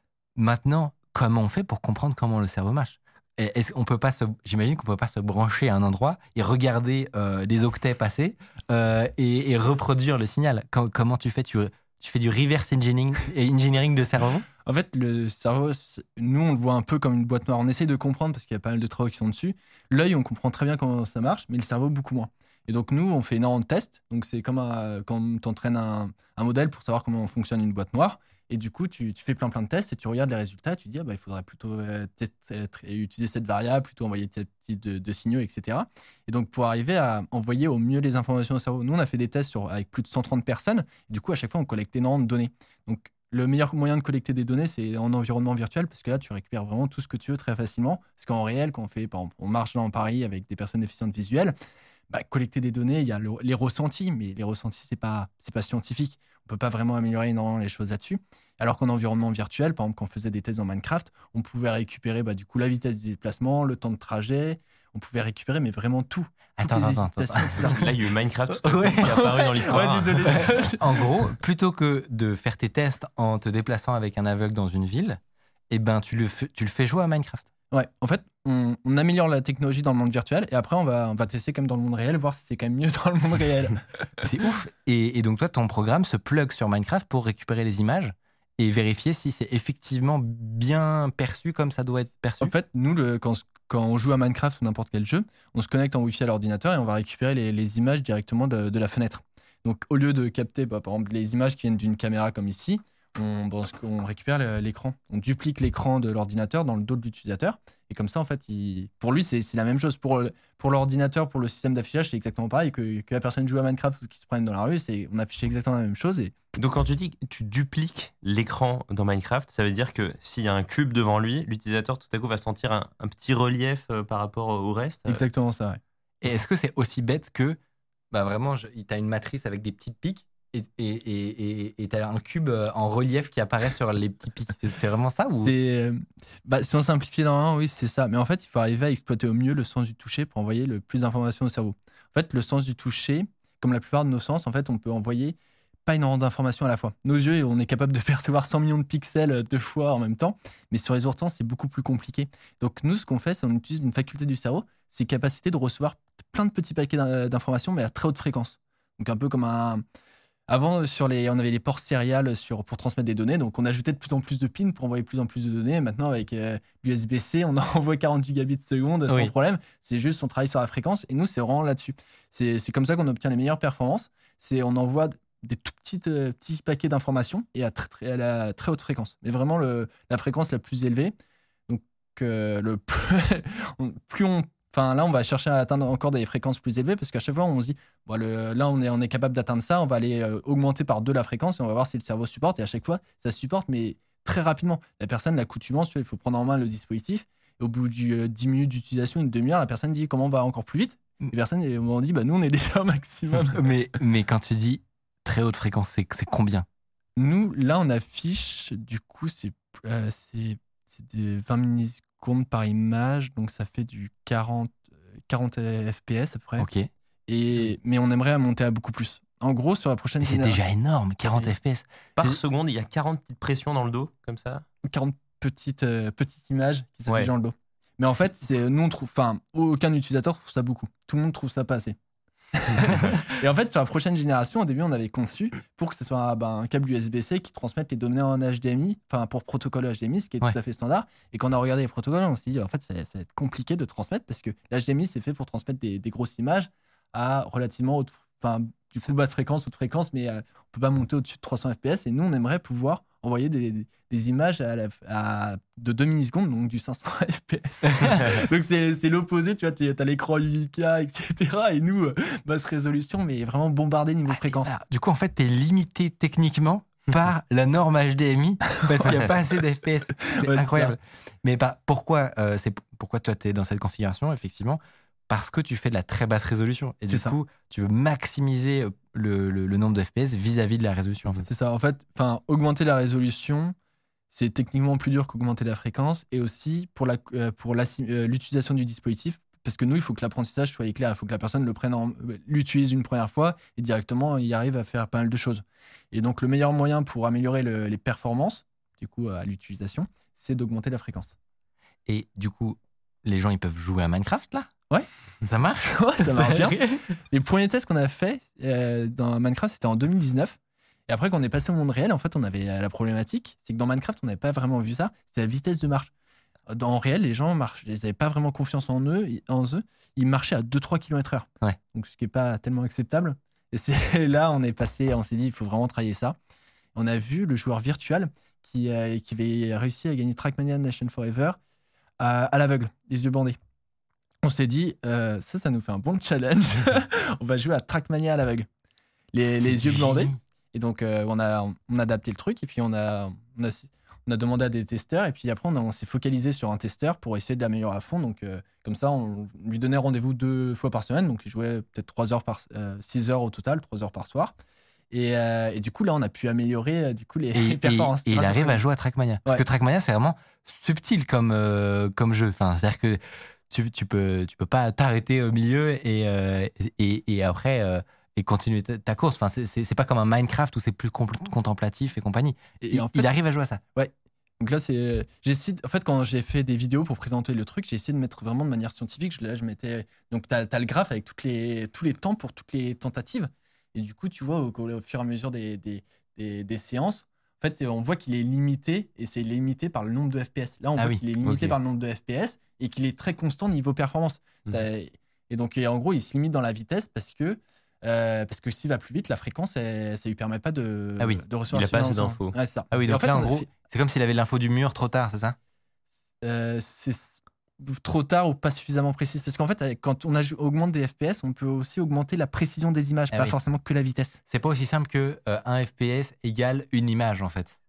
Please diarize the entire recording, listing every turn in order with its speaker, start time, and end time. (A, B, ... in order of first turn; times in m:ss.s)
0:00.4-0:14.5 A
0:14.6-0:51.5 B
0:52.1-1:07.9 B
1:06.6-1:07.8 A
1:07.6-1:10.7 C
1:08.6-1:17.4 A
1:09.0-1:11.0 B
1:17.7-1:23.8 B
1:24.2-1:32.5 A
1:32.4-1:56.4 B
1:56.6-2:05.2 C
2:05.1-2:05.8 B
2:06.2-2:07.6 A
2:08.1-2:15.5 A
2:15.4-2:39.8 B
2:40.5-3:01.1 B
2:49.1-2:49.3 A
3:01.7-3:23.6 B
3:23.5-3:26.6 A
3:27.2-3:36.7 B
3:36.6-3:36.9 A
3:37.3-3:40.6 B
3:40.2-3:42.4 A
3:42.2-3:44.6 C
3:44.8-3:52.0 B
3:52.5-4:24.7 B
4:18.0-4:18.2 A
4:24.3-4:41.4 A
4:30.2-4:31.0 B
4:37.1-4:37.3 B
4:41.4-4:43.7 B
4:44.3-5:01.3 B
5:02.1-5:04.7 A
5:05.4-5:07.0 A
5:05.9-5:06.8 B
5:07.3-5:10.6 B
5:11.1-5:16.1 B
5:16.7-5:26.4 B
5:26.9-5:31.6 B
5:32.2-5:33.6 B
5:34.4-5:38.7 B
5:39.3-5:54.5 B
5:39.4-5:40.4 A
5:55.1-5:58.8 B
5:57.5-6:13.8 A
6:12.8-6:13.3 B
6:13.9-6:43.7 B
6:31.4-6:31.8 C
6:41.7-6:42.5 C
6:42.9-6:45.6 A
6:46.4-6:54.4 B
6:53.3-6:53.6 A
6:54.5-6:57.8 A